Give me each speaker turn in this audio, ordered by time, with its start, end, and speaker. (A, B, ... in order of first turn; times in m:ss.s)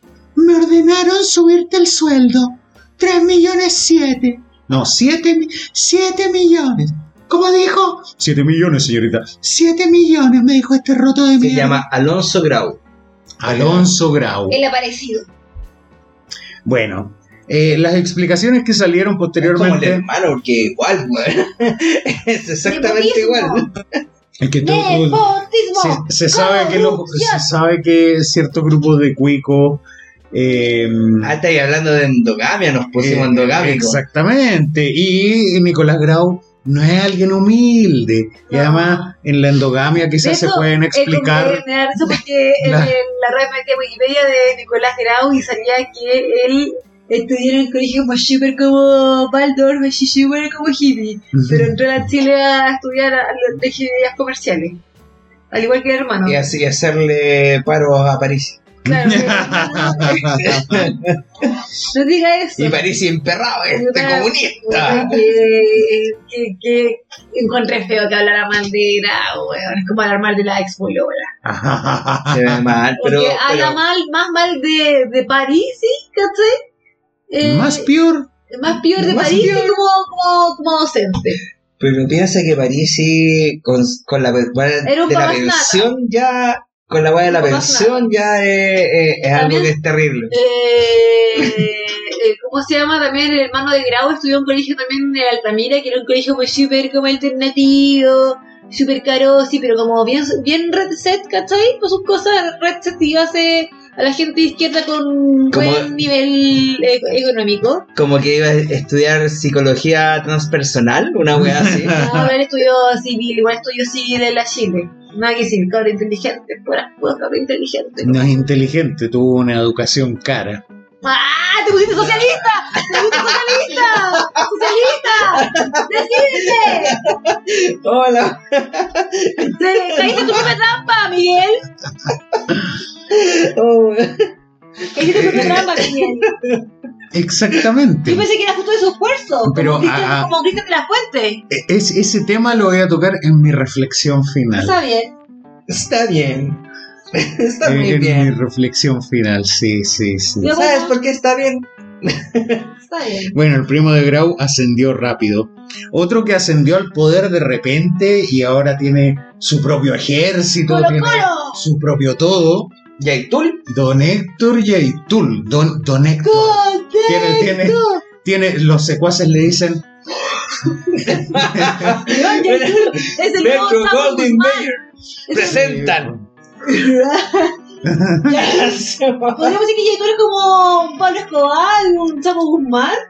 0:00.4-0:11.8 A
0:11.4-0:12.8 B
0:13.4-0:14.6 A
0:13.4-0:14.0 B
0:14.5-0:15.3 C
0:16.6-0:20.0 A
0:19.4-0:23.8 B
0:22.6-0:23.7 C
0:24.4-0:31.3 A
0:24.6-0:27.4 C
0:31.2-0:34.0 B
0:33.0-0:41.6 A
0:38.5-0:39.1 C
0:40.2-0:54.8 C
0:42.6-0:43.0 A
0:51.3-0:51.8 A
0:55.5-0:56.4 C
0:56.2-0:58.7 B
0:58.8-1:00.4 C
0:58.8-1:00.9 A
1:00.4-1:01.4 B
1:01.9-1:02.8 C
1:02.6-1:05.2 B
1:03.7-1:11.3 C
1:11.4-1:12.7 A
1:12.3-1:13.8 B
1:13.0-1:16.6 C
1:17.3-1:17.9 C
1:17.4-1:18.3 A
1:18.5-1:21.4 C
1:18.9-1:19.7 B
1:21.8-1:30.3 B
1:24.8-1:25.9 C
1:27.3-1:28.1 C
1:29.3-1:29.7 C
1:30.3-1:47.8 C
1:45.5-1:45.9 B
1:47.9-1:52.0 B
1:51.4-1:52.3 A
1:51.9-1:58.4 C
1:58.0-2:00.6 A
2:01.0-2:07.0 C
2:02.1-2:04.4 B
2:05.0-2:10.5 B
2:09.4-2:11.6 C
2:13.1-2:14.3 B
2:14.8-2:16.6 B
2:14.9-2:16.3 C
2:17.1-2:18.2 A
2:18.1-2:21.4 C
2:19.4-2:20.3 A
2:21.5-2:24.8 A
2:24.5-2:25.1 C
2:25.7-2:28.4 B
2:27.6-2:30.6 A
2:30.4-2:31.0 C
2:30.6-2:32.7 B
2:32.9-2:33.3 C
2:33.3-2:42.7 A
2:40.7-2:41.6 C
2:43.0-2:43.7 B
2:43.7-2:49.9 A
2:46.2-2:48.0 C
2:50.9-2:54.8 B
2:51.5-2:51.9 A
2:52.0-2:54.7 C
2:55.3-2:55.7 C
2:55.3-2:56.1 B
2:55.4-2:56.2 A
2:56.6-2:57.6 C
2:57.8-2:58.4 A
2:58.3-2:58.8 C
2:58.3-2:59.5 B
2:59.3-3:03.0 C